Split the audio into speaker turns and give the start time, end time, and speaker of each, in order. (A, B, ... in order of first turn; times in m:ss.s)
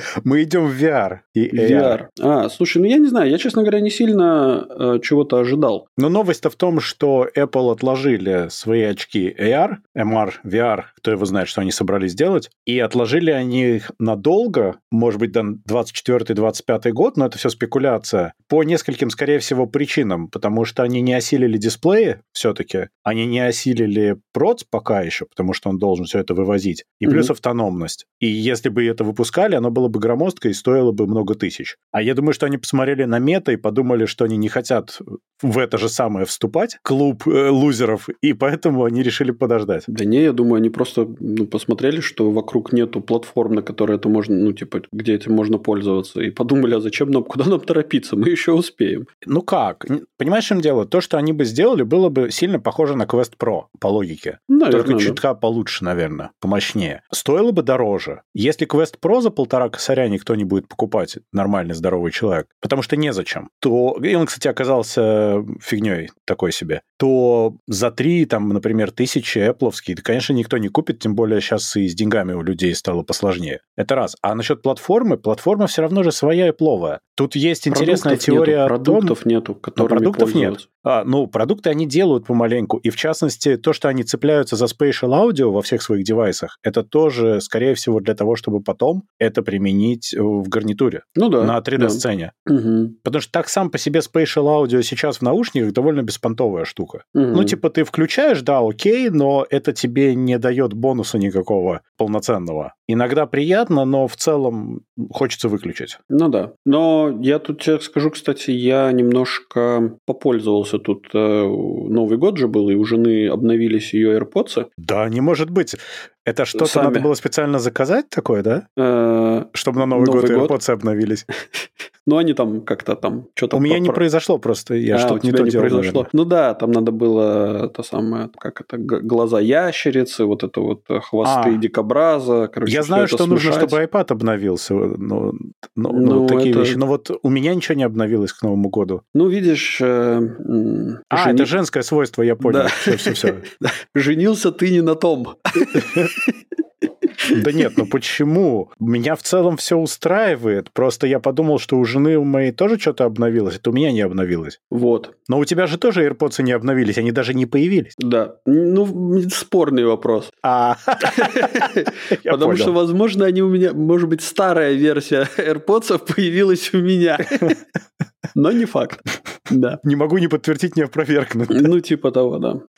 0:00.2-0:02.0 A
0:01.5-0:05.8 B
0:06.0-0:39.9 A
0:39.9-0:49.1 B
0:49.2-1:19.2 A
0:54.5-0:55.2 B
1:17.7-1:20.6 B
1:19.8-1:32.3 A
1:31.2-1:33.0 B
1:33.0-1:46.0 A
1:37.1-1:37.6 B
1:46.1-1:54.7 B
1:54.8-1:58.6 A
1:56.5-1:57.1 B
1:58.8-2:00.6 B
1:59.5-2:01.2 A
2:01.5-2:04.0 B
2:03.5-2:06.1 A
2:04.9-2:13.8 B
2:11.2-2:11.6 A
2:12.6-2:19.0 A
2:15.9-2:16.8 B
2:19.1-2:21.5 B
2:21.1-2:23.4 A
2:22.4-2:26.4 B
2:25.7-2:26.1 A
2:27.2-2:27.7 B
2:27.3-2:34.6 A
2:34.7-2:35.1 B
2:35.3-2:37.9 A
2:38.0-2:40.4 B
2:40.4-2:42.7 A
2:41.0-2:47.6 B
2:48.3-2:49.8 B
2:49.8-2:51.7 A
2:51.5-2:52.6 B